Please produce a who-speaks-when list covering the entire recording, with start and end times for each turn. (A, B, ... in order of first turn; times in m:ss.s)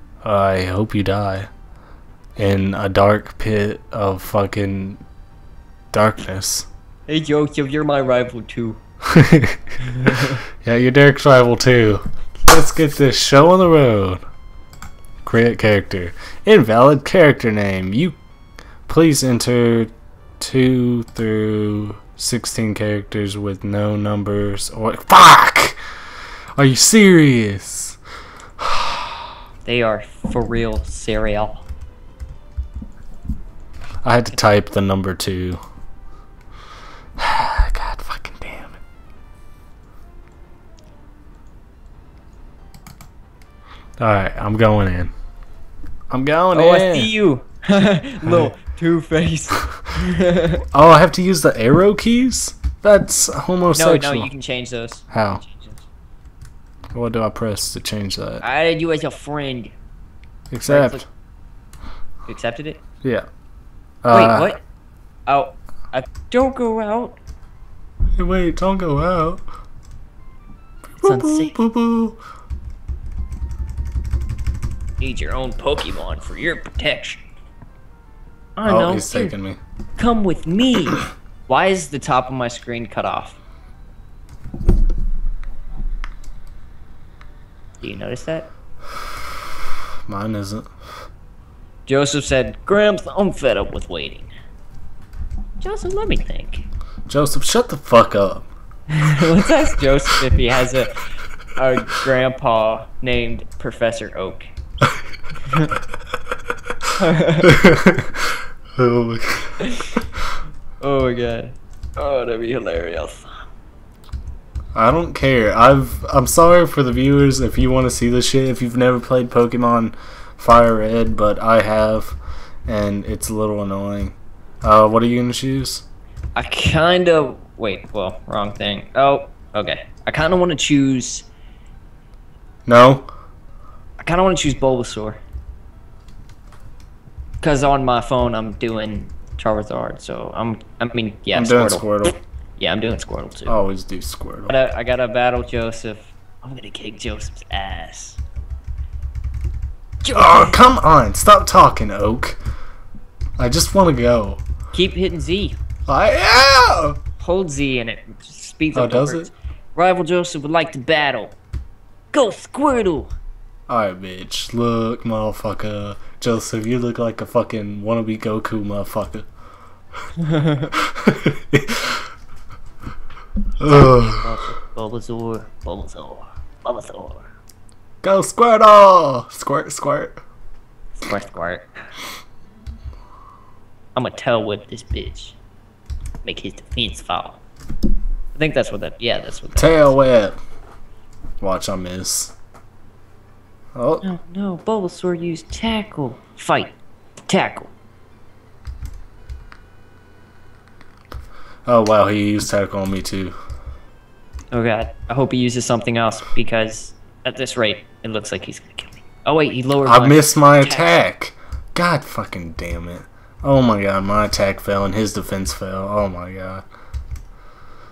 0:00.2-0:01.5 A
0:02.4-0:05.0 A
0:05.9-0:06.7 A
0:07.1-0:08.8 B
0:09.1-0:14.2 A
0:09.8-0:10.4 B
0:15.2-0:18.2 A
0:18.9-0:25.8 A
0:26.6-0:28.0 A
0:28.6-0:29.3 A
0:29.6-0:31.7 B
0:34.0-0:35.6 A
0:37.2-0:38.8 A
0:44.0-0:45.1 A
0:46.1-0:47.1 A
0:46.5-0:50.6 B
0:48.2-0:48.5 A
0:50.7-0:54.3 A
0:53.8-0:55.9 B
0:55.1-0:55.4 A
0:56.9-0:58.4 A
0:58.4-0:59.7 B
1:00.5-1:01.0 A
1:00.7-1:01.0 B
1:02.3-1:02.8 B
1:04.0-1:04.6 A
1:04.1-1:04.6 B
1:05.3-1:07.2 B
1:08.2-1:09.4 A
1:11.0-1:12.2 A
1:11.0-1:11.6 B
1:15.0-1:17.2 B
1:18.6-1:19.4 B
1:18.7-1:19.6 A
1:20.0-1:23.4 B
1:27.8-1:28.5 B
1:30.1-1:30.7 A
1:31.9-1:34.3 B
1:35.6-1:36.6 B
1:37.1-1:38.5 A
1:38.9-1:44.5 B
1:45.5-1:45.8 B
1:47.0-1:47.6 B
1:47.4-1:50.0 A
1:49.6-1:50.0 B
1:50.8-1:53.3 B
1:54.8-2:05.8 A
2:06.4-2:11.3 B
2:12.7-2:13.1 A
2:14.0-2:15.2 B
2:17.4-2:23.6 B
2:21.3-2:22.2 A
2:23.5-2:24.6 A
2:24.5-2:28.2 B
2:30.0-2:30.6 B
2:30.1-2:32.4 A
2:33.4-2:34.4 A
2:34.7-2:35.6 B
2:35.9-2:37.0 A
2:37.2-2:41.4 B
2:38.7-2:39.3 A
2:42.1-2:43.1 B
2:43.7-2:49.3 A
2:50.2-2:50.7 B
2:50.7-2:52.1 A
2:53.6-2:54.3 A
2:53.6-2:57.3 B
2:58.0-3:00.2 A
3:01.0-3:01.7 B
3:04.0-3:05.4 B
3:06.2-3:07.4 B
3:08.3-3:10.0 B
3:09.6-3:10.4 A
3:11.4-3:12.4 A
3:13.8-3:14.1 A
3:14.0-3:16.8 B
3:17.3-3:17.7 B
3:21.7-3:23.4 A
3:24.5-3:30.9 B
3:29.8-3:36.6 A